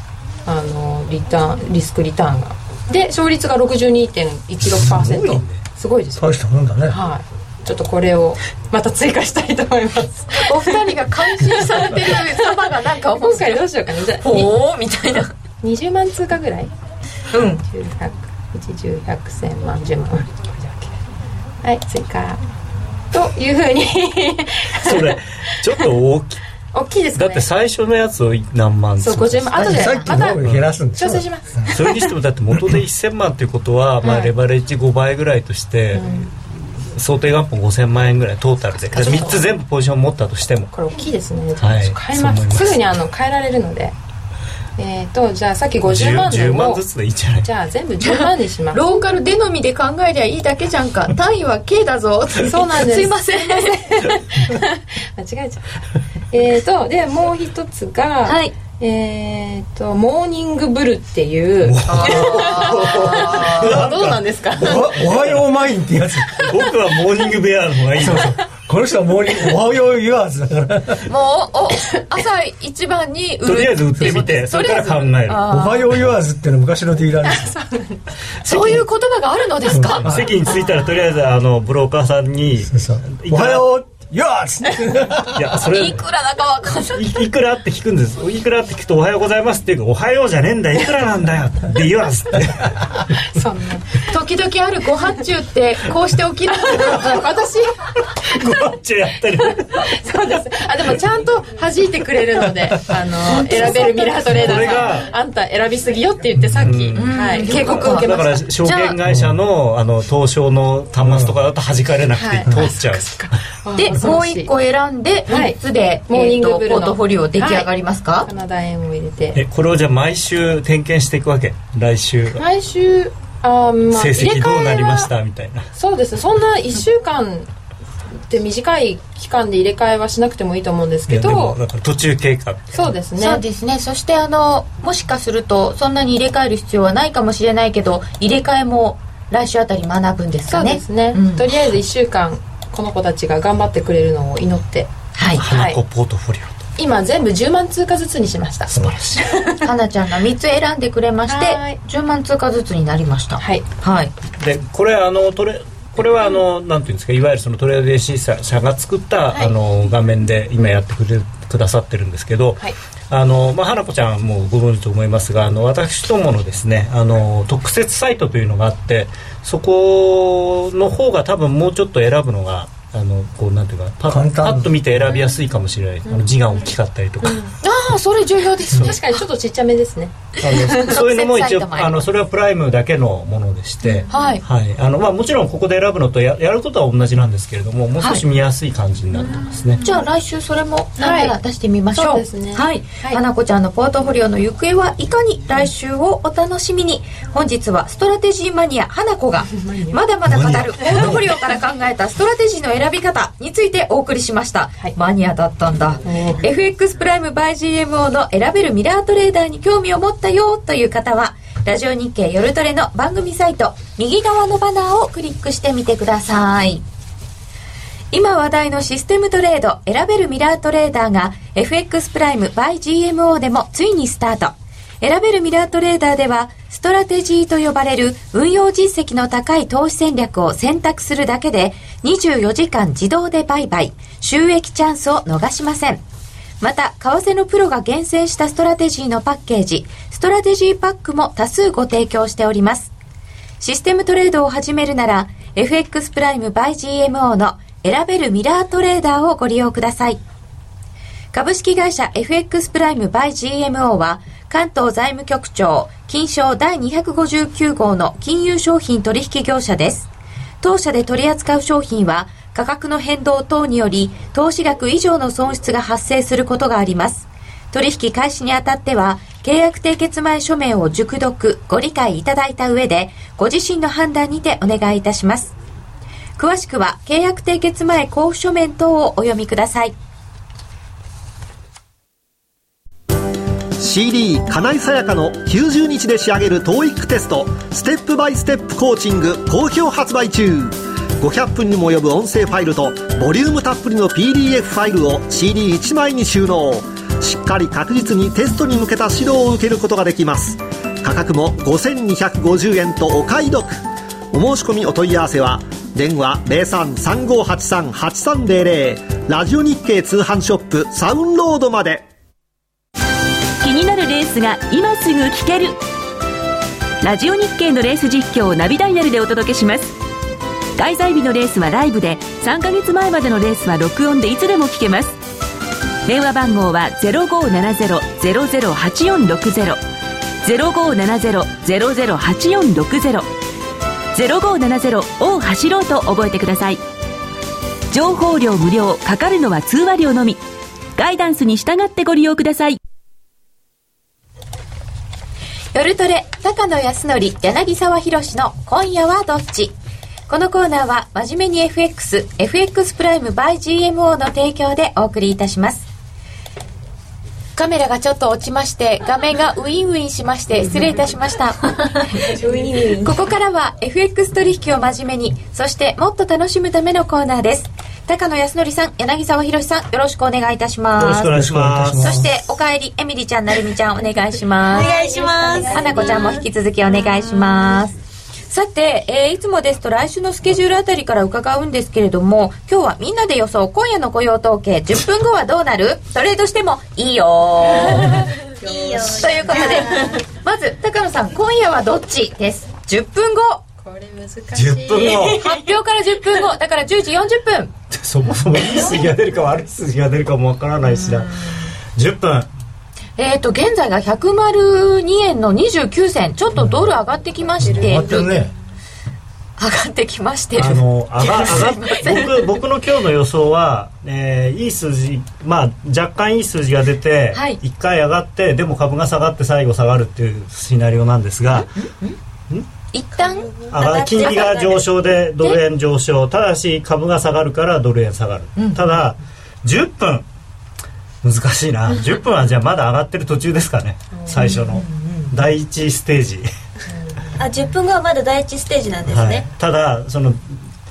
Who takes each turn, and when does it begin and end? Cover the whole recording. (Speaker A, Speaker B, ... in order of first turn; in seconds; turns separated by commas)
Speaker A: 0.5-6.3, Speaker B: 4.8-5.4, Speaker C: 4.9-5.6, Speaker B: 6.2-7.0, Speaker A: 6.9-14.5, Speaker D: 10.3-13.6, Speaker D: 14.2-15.3, Speaker A: 15.6-16.7, Speaker D: 17.3-17.6, Speaker A: 17.6-21.0, Speaker A: 21.6-22.4, Speaker A: 23.1-25.2, Speaker C: 24.8-26.4, Speaker A: 26.7-27.5, Speaker C: 27.1-29.7, Speaker A: 29.0-32.0, Speaker B: 29.6-31.7, Speaker C: 30.4-30.7, Speaker C: 31.7-40.7, Speaker A: 34.0-34.3, Speaker A: 35.9-36.3, Speaker A: 38.9-39.5, Speaker D: 39.0-39.3, Speaker A: 40.7-43.9, Speaker C: 41.6-42.8, Speaker A: 44.8-46.8, Speaker C: 45.9-47.5, Speaker A: 47.4-49.0, Speaker D: 48.0-54.1, Speaker A: 52.4-55.6, Speaker A: 56.3-65.0, Speaker D: 58.2-58.5, Speaker C: 61.6-64.2, Speaker D: 61.8-63.8, Speaker B: 64.6-66.5, Speaker C: 65.0-65.4, Speaker C: 66.4-68.4, Speaker B: 68.0-71.1, Speaker D: 71.1-75.9, Speaker C: 73.4-75.5, Speaker B: 75.5-77.5, Speaker A: 77.2-78.0, Speaker C: 78.4-78.8, Speaker D: 78.4-80.2, Speaker B: 79.7-80.3, Speaker C: 79.8-83.7, Speaker B: 82.7-85.6, Speaker C: 85.3-86.0, Speaker D: 85.6-87.1, Speaker C: 86.9-92.8, Speaker A: 93.3-94.0, Speaker D: 94.1-97.2, Speaker A: 96.5-98.5, Speaker C: 98.2-99.9, Speaker A: 99.4-108.5, Speaker D: 103.3-104.3, Speaker C: 104.3-105.1, Speaker B: 106.4-106.8, Speaker C: 106.6-113.2, Speaker D: 106.9-108.1, Speaker D: 108.6-109.0, Speaker B: 109.0-109.4, Speaker B: 111.0-111.3, Speaker A: 112.1-114.5, Speaker D: 113.8-118.3, Speaker A: 115.3-117.7, Speaker A: 118.2-119.4, Speaker C: 119.3-122.4, Speaker A: 122.3-125.1, Speaker C: 123.9-125.7, Speaker A: 125.7-127.5, Speaker A: 128.3-131.6, Speaker C: 131.1-132.8, Speaker A: 132.7-133.4, Speaker D: 133.2-141.5, Speaker A: 140.5-145.8, Speaker D: 145.2-145.4, Speaker C: 145.4-146.5, Speaker A: 146.8-149.7, Speaker C: 148.7-149.2, Speaker D: 149.6-154.1, Speaker A: 151.3-151.8, Speaker A: 153.4-153.7, Speaker C: 154.4-177.5, Speaker B: 174.1-174.9, Speaker D: 177.6-179.1, Speaker A: 178.8-180.8, Speaker C: 180.4-189.8, Speaker D: 180.7-182.0, Speaker D: 184.1-184.4, Speaker D: 189.8-216.8, Speaker A: 191.0-191.3, Speaker A: 191.9-193.2, Speaker A: 199.5-200.0, Speaker A: 206.0-206.4, Speaker D: 218.1-236.0, Speaker D: 236.6-242.9, Speaker D: 243.6-250.2, Speaker D: 251.3-260.1, Speaker D: 260.6-275.5, Speaker D: 276.4-279.9, Speaker E: 283.8-312.1, Speaker F: 313.6-315.8, Speaker F: 317.0-320.0, Speaker F: 320.8-325.2, Speaker F: 326.1-329.8, Speaker F: 330.4-333.3, Speaker F: 334.1-336.8, Speaker F: 337.9-340.4, Speaker F: 341.0-342.8, Speaker D: 345.7-349.7, Speaker D: 350.3-355.9, Speaker D: 357.6-361.7, Speaker G: 362.2-363.1, Speaker D: 363.0-371.3, Speaker C: 371.0-372.2, Speaker B: 371.2-372.3, Speaker D: 372.0-377.9, Speaker G: 374.7-377.6, Speaker D: 378.5-388.3, Speaker G: 388.5-390.2, Speaker D: 389.0-393.6, Speaker A: 393.8-395.4, Speaker C: 394.5-395.4, Speaker D: 395.1-397.7, Speaker C: 397.9-402.5, Speaker D: 403.2-408.4, Speaker B: 406.6-406.9, Speaker B: 407.6-408.5, Speaker D: 409.6-412.3, Speaker C: 410.6-421.7, Speaker D: 417.3-417.6, Speaker D: 422.9-423.5, Speaker G: 423.6-425.0, Speaker C: 423.7-430.3, Speaker D: 428.6-428.9, Speaker C: 431.2-436.5, Speaker A: 434.2-434.5, Speaker D: 434.3-435.3, Speaker A: 436.9-437.3, Speaker G: 437.4-439.5, Speaker C: 439.1-440.4